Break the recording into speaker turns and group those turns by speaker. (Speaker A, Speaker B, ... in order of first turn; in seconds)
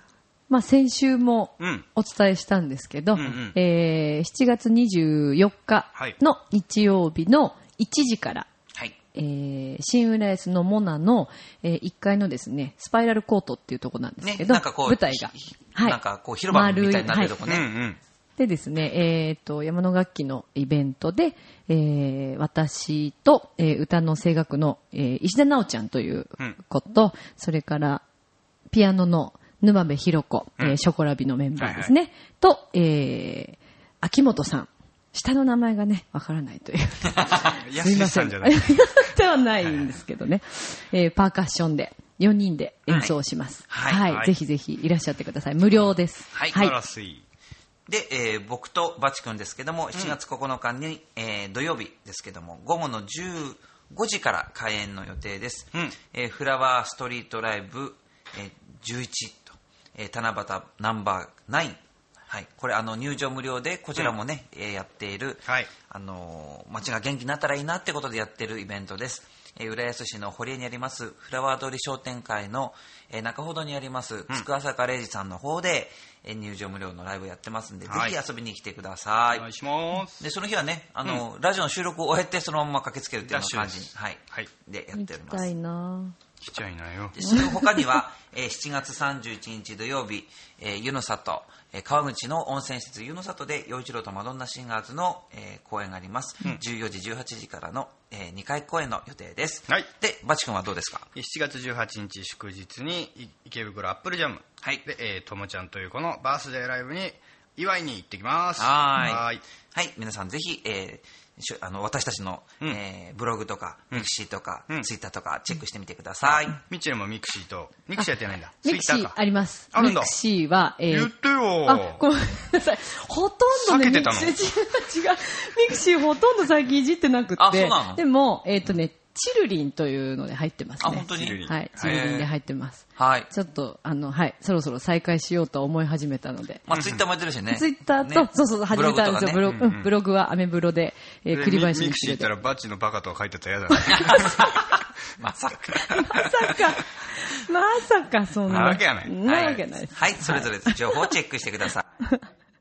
Speaker A: 0.5-8.5, 9.1-16.0, 16.5-17.3, 18.4-28.0, 28.7-46.8, 84.9-86.1, 118.6-136.7, 137.5-142.3, 143.8-144.2, 145.9-151.1
Speaker B: 1.6-1.8, 3.1-3.5, 17.4-18.0, 31.6-31.9, 37.4-39.0, 44.1-44.3, 46.5-47.2, 77.9-78.1, 79.4-80.2, 83.2-84.5, 86.4-87.2, 101.1-109.4, 116.2-119.2, 119.7-120.1, 120.9-122.0, 123.5-124.4, 131.1-132.1, 136.7-137.0, 139.4-139.9, 141.3-144.4, 145.9-146.3, 148.5-149.2
Speaker C: 14.2-17.7, 43.7-44.0, 46.3-46.6, 47.9-79.5, 80.2-85.5, 87.1-101.1, 108.6-116.6, 127.4-128.0, 130.8-132.3, 133.0-133.3, 136.7-139.4, 143.9-146.3, 148.6-151.8